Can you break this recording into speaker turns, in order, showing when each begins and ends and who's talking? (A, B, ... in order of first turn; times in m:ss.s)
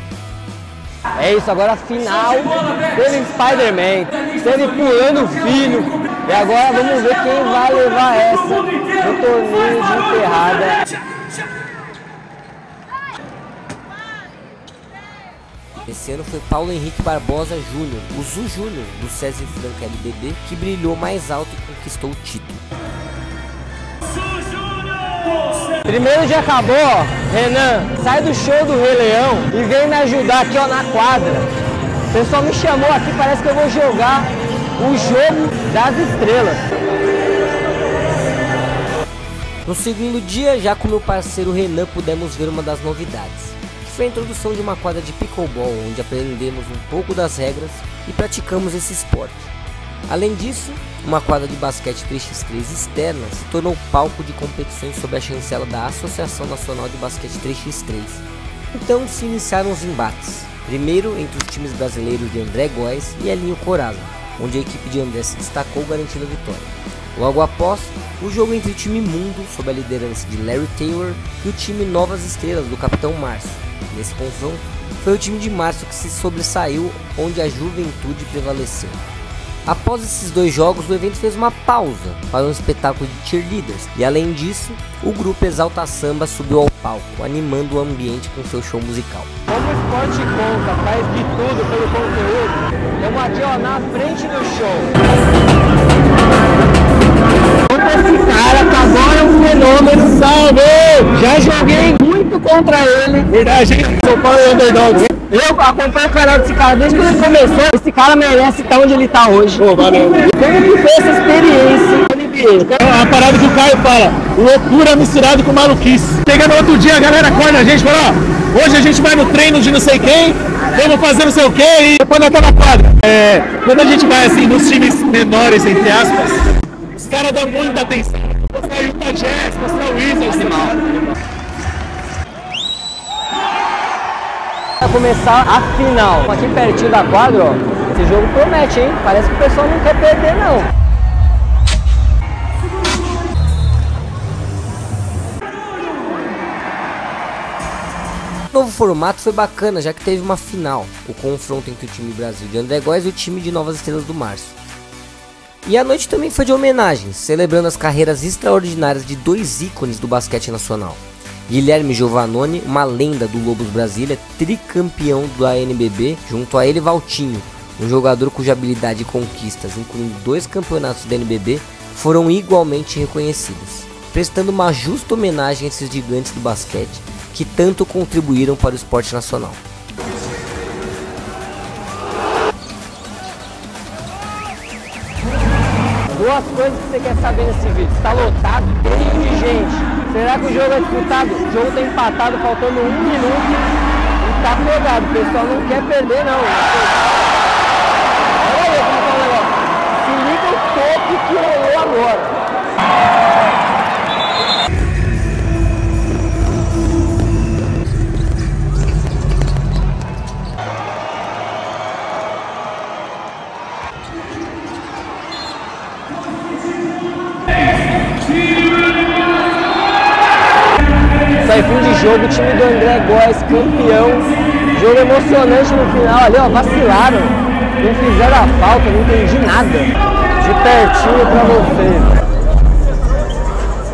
0:01.2-0:10.8 A
0:15.9-0:22.6 B
0:25.8-0:31.5 A
0:32.1-0:36.6 A
0:39.6-0:49.5 B
0:50.1-1:19.0 B
1:19.7-1:29.3 B
1:29.5-1:35.0 A
1:37.7-1:43.4 A
1:40.2-1:40.9 C
1:43.3-1:45.1 C
1:45.0-1:49.7 A
1:49.6-1:50.3 C
1:50.3-1:52.8 A
1:52.7-2:10.9 C
2:10.3-2:11.1 A
2:14.8-2:20.7 A
2:28.5-2:34.6 B
2:35.6-2:59.6 B
3:06.1-3:17.0 A
3:18.4-3:22.3 A
3:41.4-3:52.2 A